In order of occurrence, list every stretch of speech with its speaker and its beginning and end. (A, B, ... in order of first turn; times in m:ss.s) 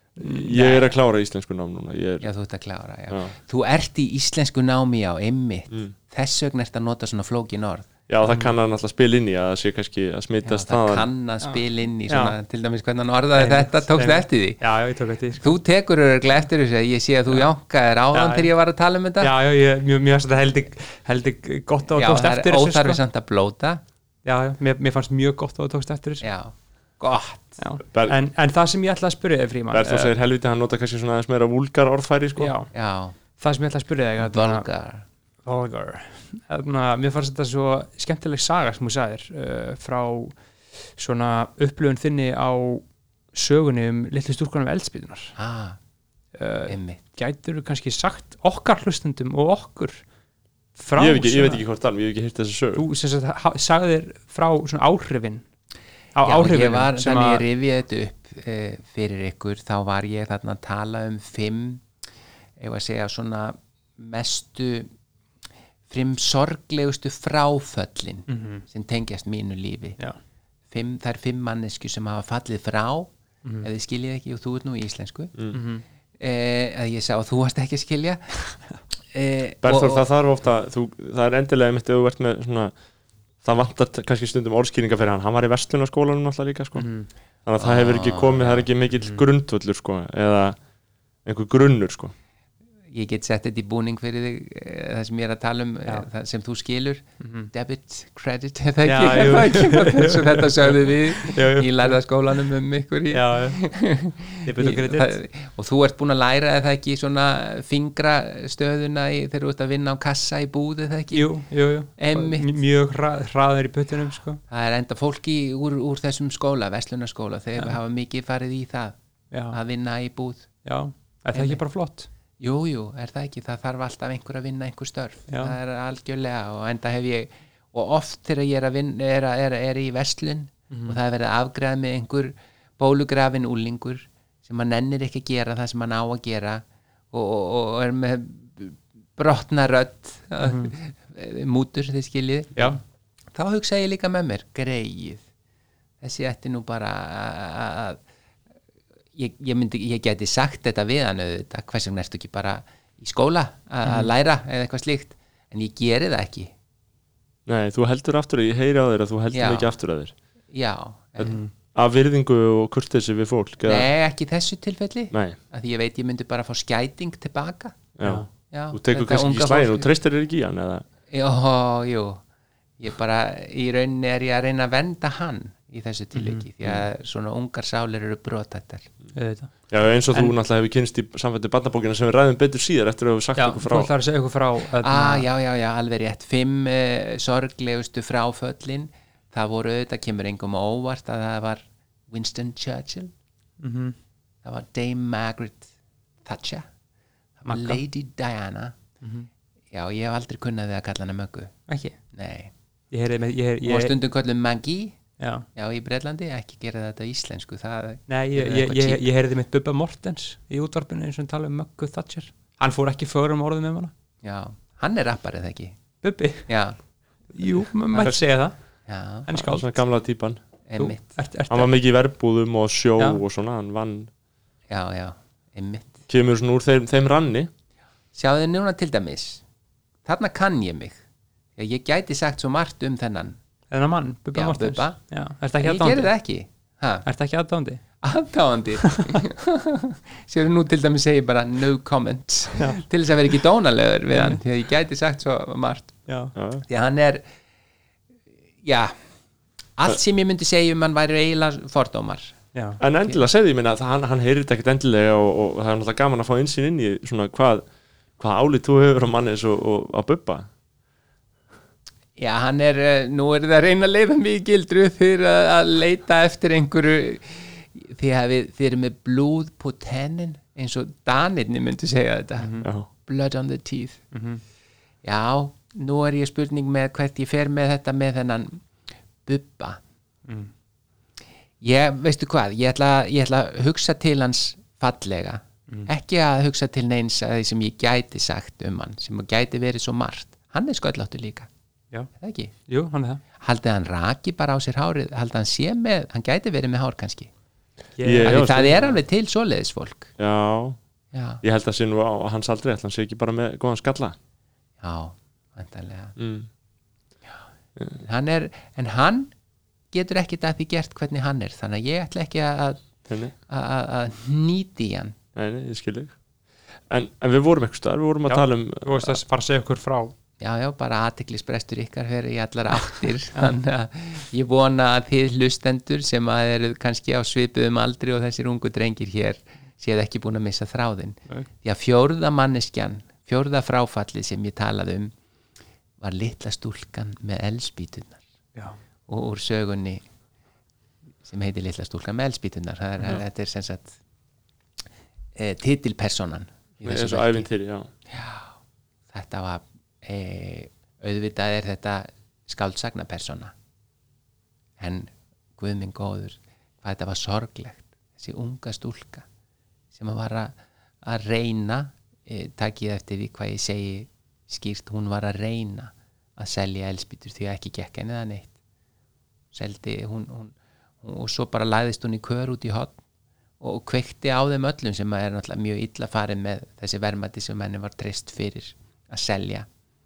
0:00.2-0:00.6 A
0:00.2-0:02.3 B
0:00.5-0:00.9 C
0:02.2-0:07.9 C
0:08.1-0:11.1 B
0:10.4-0:14.6 C
0:11.4-0:12.4 A
0:13.3-0:15.6 A
0:15.4-0:19.3 C
0:18.1-0:18.5 A
0:19.2-0:23.0 A
0:21.9-0:23.8 C
0:24.2-0:26.3 A
0:26.2-0:27.6 C
0:27.6-0:30.1 A
0:29.7-0:32.5 B
0:32.4-0:32.7 A
0:32.7-0:33.2 C
0:33.4-0:34.6 A
0:34.2-0:35.0 C
0:35.4-0:40.3 A
0:41.0-0:45.4 A
0:45.4-0:45.8 C
0:46.4-0:50.0 A
0:46.7-0:47.0 C
0:50.8-0:51.6 A
0:51.0-0:52.8 B
0:52.8-0:55.4 A
0:56.1-0:57.4 A
0:56.2-1:01.8 C
1:02.6-1:04.9 C
1:05.9-1:10.0 C
1:08.3-1:08.6 A
1:10.7-1:13.1 C
1:13.6-1:15.3 C
1:15.5-1:15.8 A
1:16.2-1:18.4 C
1:19.1-1:20.0 C
1:19.6-1:22.7 B
1:23.4-1:26.9 B
1:26.8-1:27.1 A
1:27.4-1:30.6 B
1:27.6-1:28.6 C
1:29.0-1:29.2 A
1:31.2-1:32.1 B
1:32.9-1:51.3 C
1:37.2-1:37.5 A
1:38.8-1:42.0 A
1:43.1-1:43.6 A
1:44.4-1:45.2 A
1:51.1-1:54.4 A
1:52.0-1:52.5 C
1:54.5-1:58.9 C
1:59.3-1:59.6 A
1:59.5-2:00.5 C
2:00.6-2:02.1 A
2:01.3-2:01.6 C
2:02.4-2:22.8 C
2:05.3-2:05.6 A
2:10.7-2:11.0 A
2:20.4-2:20.7 A
2:23.3-2:25.2 C
2:26.0-2:28.0 C
2:29.2-2:36.5 C
2:33.8-2:34.1 A
2:37.4-2:40.1 B
2:39.3-2:39.7 C
2:40.5-2:41.4 C
2:41.2-2:43.9 B
2:41.2-2:41.5 A
2:43.6-2:47.8 C
2:45.1-2:45.4 B
2:48.0-2:50.8 B
2:48.0-2:48.3 A
2:48.5-2:49.9 C
2:51.1-2:52.2 C
2:52.8-2:58.9 C
2:56.1-2:56.4 A
2:59.1-3:00.3 A
2:59.7-3:03.9 B
3:03.4-3:05.2 A
3:04.8-3:13.1 C
3:13.6-3:14.0 A
3:14.4-3:15.7 C
3:16.2-3:16.6 C
3:17.4-3:18.8 C
3:17.5-3:17.8 A
3:19.0-3:19.3 A
3:19.7-3:21.6 C
3:21.7-3:21.9 A
3:22.1-3:22.5 C
3:22.9-3:24.0 A
3:23.6-3:25.0 C
3:25.2-3:25.5 A
3:25.5-3:29.0 C
3:28.1-3:33.9 A
3:34.2-3:35.8 C
3:36.0-3:36.5 A
3:36.5-3:36.8 C
3:37.3-3:38.5 A
3:38.9-3:39.3 C
3:39.2-3:39.8 A
3:39.4-3:40.4 B
3:40.7-3:41.0 C
3:40.8-3:41.7 A
3:41.5-3:44.1 B
3:44.7-3:46.0 C
3:46.1-3:47.5 B
3:48.1-3:49.4 C
3:50.0-3:51.0 C
3:51.6-3:53.4 C
3:53.7-3:56.1 A
3:54.3-3:55.0 C
3:55.6-3:57.0 C
3:57.0-3:57.8 A
3:58.0-4:06.0 C
3:58.8-3:59.2 A
4:02.6-4:02.8 A
4:04.1-4:04.4 A
4:06.1-4:06.3 A
4:06.4-4:06.6 B
4:06.6-4:07.2 C
4:08.6-4:08.9 C
4:09.8-4:12.3 C
4:12.5-4:12.8 A
4:12.8-4:17.6 B
4:18.2-4:20.5 B
4:22.2-4:34.0 C
4:32.4-4:32.6 A
4:34.1-4:34.4 A
4:35.0-4:38.6 C
4:39.2-4:39.8 C
4:41.6-4:51.5 C
4:52.2-4:52.5 C
4:52.7-4:53.2 A
4:53.4-4:57.3 C
4:58.0-4:59.0 A
4:58.0-4:58.8 B
4:58.2-5:00.1 C
5:00.2-5:00.8 B
5:01.1-5:01.4 C
5:01.4-5:04.2 B
5:04.8-5:06.2 C
5:06.2-5:06.5 B
5:08.0-5:09.3 C
5:09.9-5:12.8 C
5:13.1-5:13.3 B
5:13.5-5:15.2 C
5:15.3-5:16.1 B
5:16.9-5:19.2 B
5:18.3-5:20.1 A
5:20.4-5:35.1 C
5:36.0-5:38.2 C
5:39.1-5:40.0 C
5:41.2-5:44.0 C
5:45.4-5:47.5 C
5:46.8-5:47.9 B
5:48.1-5:48.5 C
5:49.1-5:53.5 C
5:54.8-5:59.2 C
5:59.9-6:08.5 C
6:09.5-6:12.9 C
6:13.6-6:19.7 C